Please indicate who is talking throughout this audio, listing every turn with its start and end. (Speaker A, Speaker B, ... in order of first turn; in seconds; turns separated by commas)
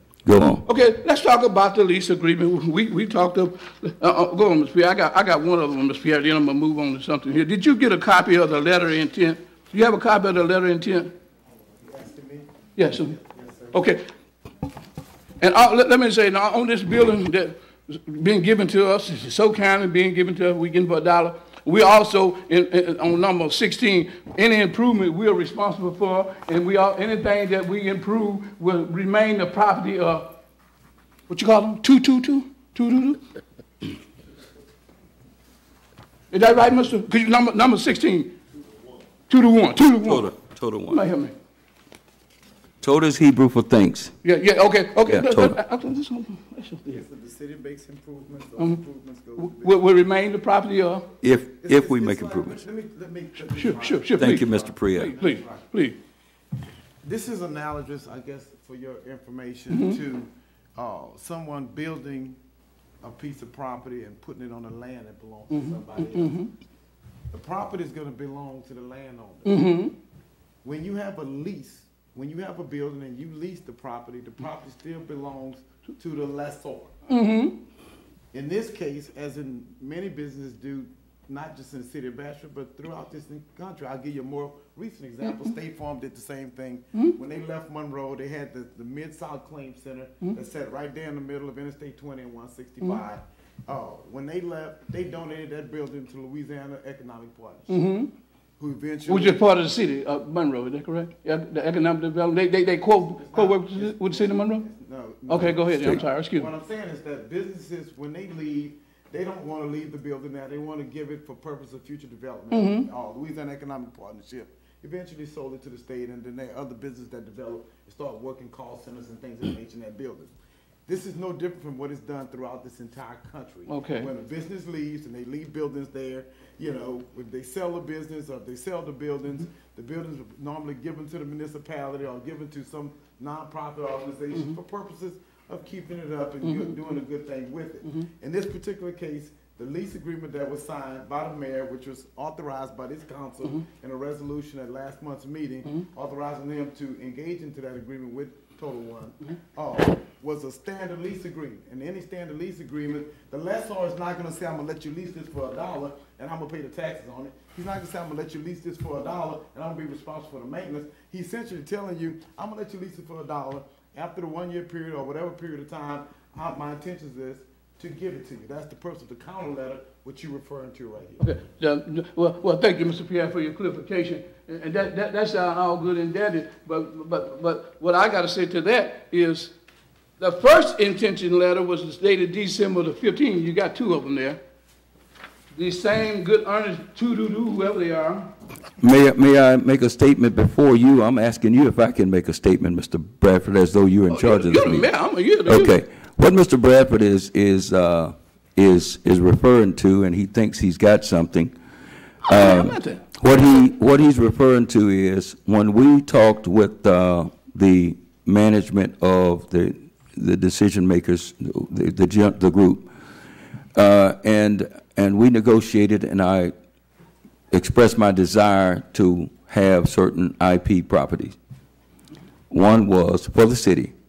Speaker A: 0.2-0.6, Speaker B: 0.6-11.1, Speaker C: 11.8-13.8, Speaker B: 12.8-13.2, Speaker B: 13.7-14.0, Speaker B: 15.4-30.3, Speaker B: 31.3-33.2, Speaker B: 36.3-38.4, Speaker B: 39.3-40.3, Speaker A: 40.0-41.0, Speaker B: 40.9-41.3, Speaker A: 42.8-44.1, Speaker B: 44.2-47.0, Speaker A: 45.1-45.6, Speaker C: 46.9-49.8, Speaker B: 49.4-51.1, Speaker A: 51.2-52.6, Speaker C: 51.6-55.7, Speaker B: 53.4-56.0, Speaker A: 54.2-55.2, Speaker C: 57.0-62.4, Speaker B: 59.7-60.0, Speaker C: 63.0-66.4, Speaker B: 65.5-66.5, Speaker C: 67.3-69.8, Speaker B: 69.5-69.9, Speaker C: 70.6-76.9, Speaker B: 77.1-77.6, Speaker C: 78.3-97.8, Speaker B: 85.2-85.5, Speaker B: 97.7-98.1, Speaker C: 98.6-99.5, Speaker B: 99.1-104.6, Speaker C: 102.9-120.3, Speaker B: 105.3-106.5, Speaker B: 112.5-112.9, Speaker C: 120.9-171.3, Speaker B: 123.7-124.1, Speaker B: 136.4-136.8, Speaker B: 171.2-179.5, Speaker B: 180.2-184.4, Speaker B: 185.5-188.3, Speaker A: 188.8-194.9, Speaker B: 194.1-195.8, Speaker A: 195.5-201.5, Speaker B: 202.2-203.1, Speaker A: 202.3-212.9, Speaker A: 213.8-216.5, Speaker A: 217.5-221.4, Speaker A: 222.5-223.9